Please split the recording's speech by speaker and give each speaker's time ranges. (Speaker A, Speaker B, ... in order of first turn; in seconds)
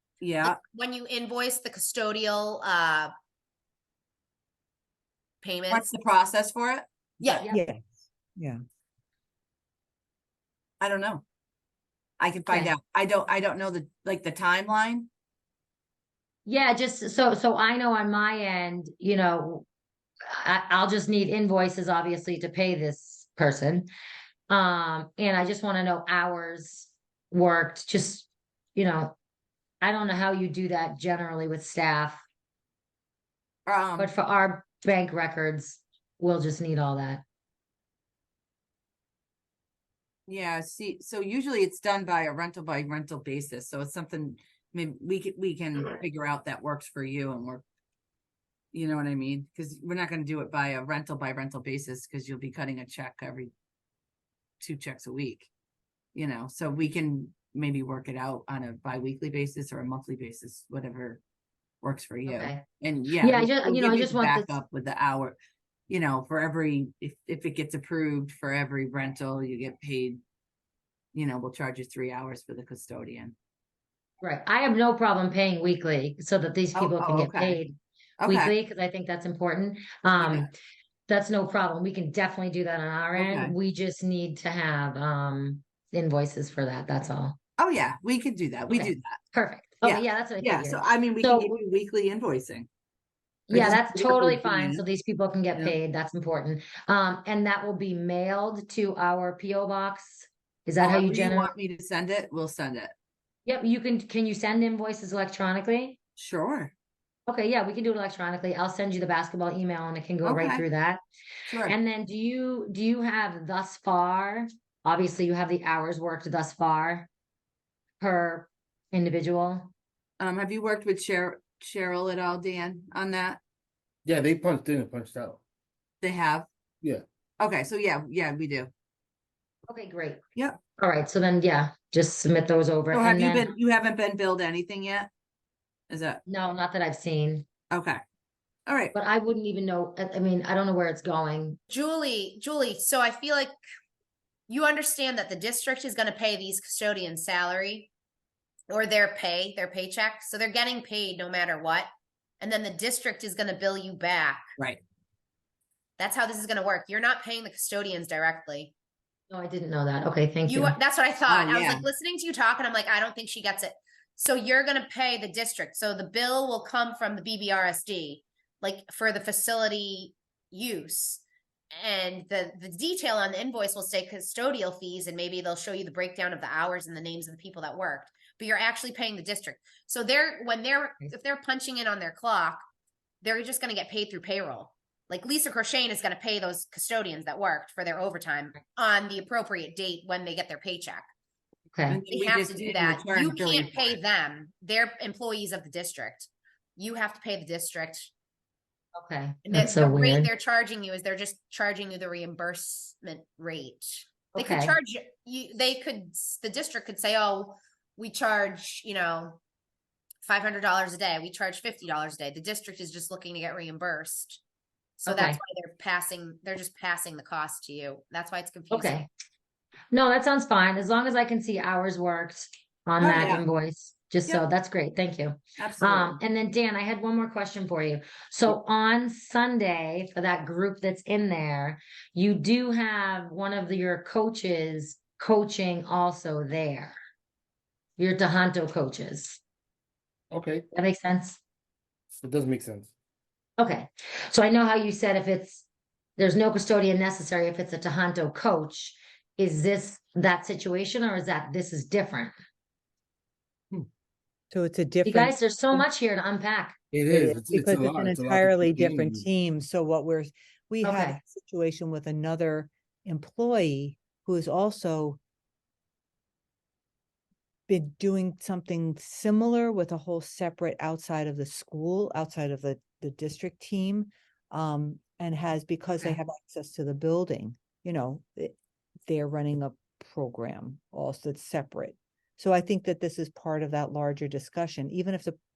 Speaker A: 0.2-0.6, 5.7-7.4, 10.8-11.2, 12.2-15.1, 33.7-34.1, 40.3-47.6, 48.7-53.5, 54.6-55.5, 56.1-61.2, 61.8-65.3, 65.9-70.2, 71.1-73.3, 76.7-77.6, 78.2-78.5, 80.2-80.5, 83.2-83.5, 87.6-89.2, 89.8-92.7, 93.5-94.8, 100.8-102.9, 106.2-106.7, 110.2-110.6, 111.5-111.8, 120.2-123.4, 126.0-126.5, 127.4-128.7, 132.9-135.1, 135.9-136.2, 137.7-138.0, 138.7-138.9, 161.3-161.9, 191.9-194.0, 223.0-223.4, 225.6-226.2
Speaker B: 0.4-3.1, 5.4-5.9, 7.2-7.5, 141.7-143.5, 144.5-147.9, 148.7-151.9, 152.4-154.4, 156.0-158.7, 160.4-182.6, 183.2-191.0, 192.1-198.1, 199.4-209.4, 210.2-214.4, 215.0-219.0
Speaker C: 7.5-8.6, 254.5-255.9, 257.1-265.2, 267.7-278.6, 279.1-285.4
Speaker D: 12.5-12.7, 16.4-19.6, 20.3-23.9, 24.5-29.1, 29.8-32.2, 34.0-37.2, 62.2-62.6, 63.2-64.5, 74.2-80.5, 81.1-87.4, 88.7-91.5, 93.5-101.5, 103.5-106.0, 107.3-111.0, 111.7-117.1, 118.0-119.7, 129.7-130.2, 130.8-133.5, 136.3-137.4, 138.9-141.6, 159.3-160.8, 191.7-192.0, 198.9-200.3, 204.3-204.8, 215.1-215.4, 218.7-219.1, 219.9-236.9, 238.0-239.4, 240.7-241.4, 243.6-245.6, 246.2-252.3, 255.0-256.8, 260.8-261.2
Speaker E: 124.0-125.4, 240.3-240.6, 242.2-242.9, 256.9-259.2